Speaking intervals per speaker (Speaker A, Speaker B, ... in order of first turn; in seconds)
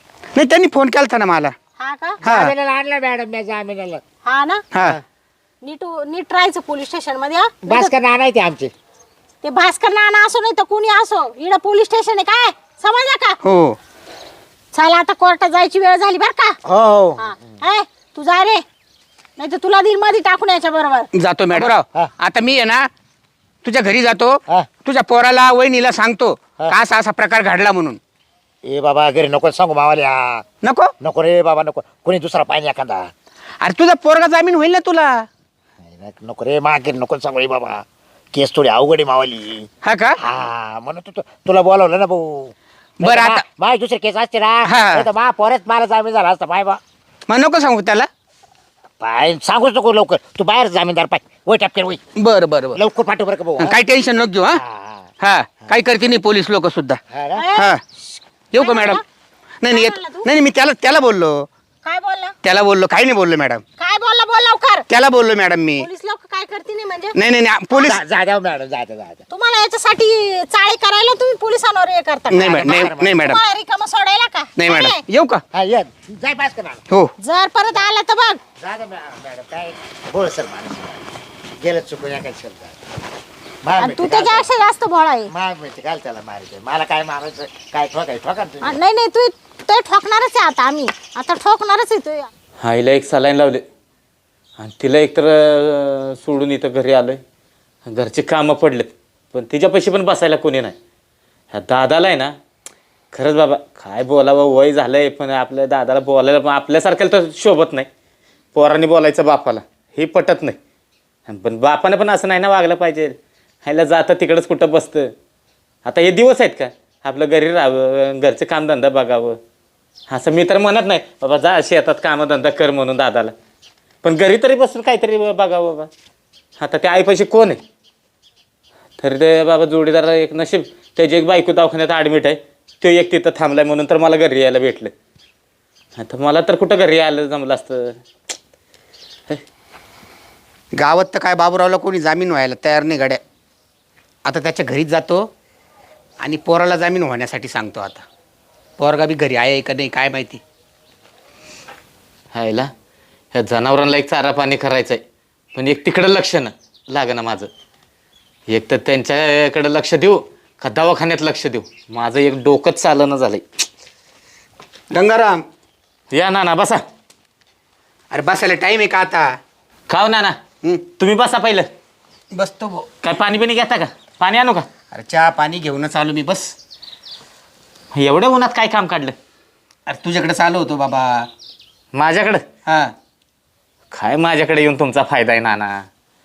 Speaker A: 0.3-1.5, 2.2-2.5, 4.7-5.0, 13.4-13.8, 21.1-22.9, 23.6-28.0, 30.6-30.9, 33.6-35.3, 39.8-40.2, 43.0-43.4, 44.7-45.1, 47.3-48.1, 52.2-52.8, 53.6-54.6, 55.2-57.0, 58.5-59.0, 59.6-61.5, 62.4-63.6, 64.9-65.9, 67.2-68.0, 72.3-73.4, 74.6-75.4, 140.7-143.2, 144.2-145.3, 146.2-148.0, 148.8-150.4, 164.9-165.4, 168.1-169.3, 172.3-172.9, 174.9-176.6, 179.9-181.3, 182.7-182.9
Speaker B: 1.8-2.2, 4.2-4.6, 5.6-7.9, 9.4-13.4, 14.7-16.6, 17.2-18.6, 19.4-21.1, 57.4-59.0, 59.7-60.3, 61.9-62.4, 63.8-64.9, 65.8-67.2, 69.3-72.5, 73.2-75.0, 77.2-78.4, 83.8-85.3, 88.6-92.3
Speaker C: 2.2-4.0, 7.7-8.7, 16.6-17.4, 21.6-22.1, 28.7-30.4, 31.0-33.1, 35.8-46.8, 49.0-52.0, 52.8-53.8, 54.5-55.1, 57.1-57.5, 67.7-69.2, 72.4-73.2, 75.5-76.8, 78.6-81.1, 81.6-82.8, 83.6-84.5, 85.3-88.8
Speaker D: 92.6-93.6, 94.6-97.2, 97.9-100.8, 101.5-102.3, 103.1-107.9, 108.5-110.6, 111.3-115.1, 115.8-119.4, 120.1-123.3, 124.0-125.9, 126.6-127.6, 129.0-134.9, 136.0-138.0, 152.3-152.7, 153.3-155.0, 155.6-157.5, 158.5-163.4, 166.1-166.8, 169.9-170.4, 171.0-171.7, 173.0-174.7, 177.9-179.2, 181.9-182.4, 183.9-185.8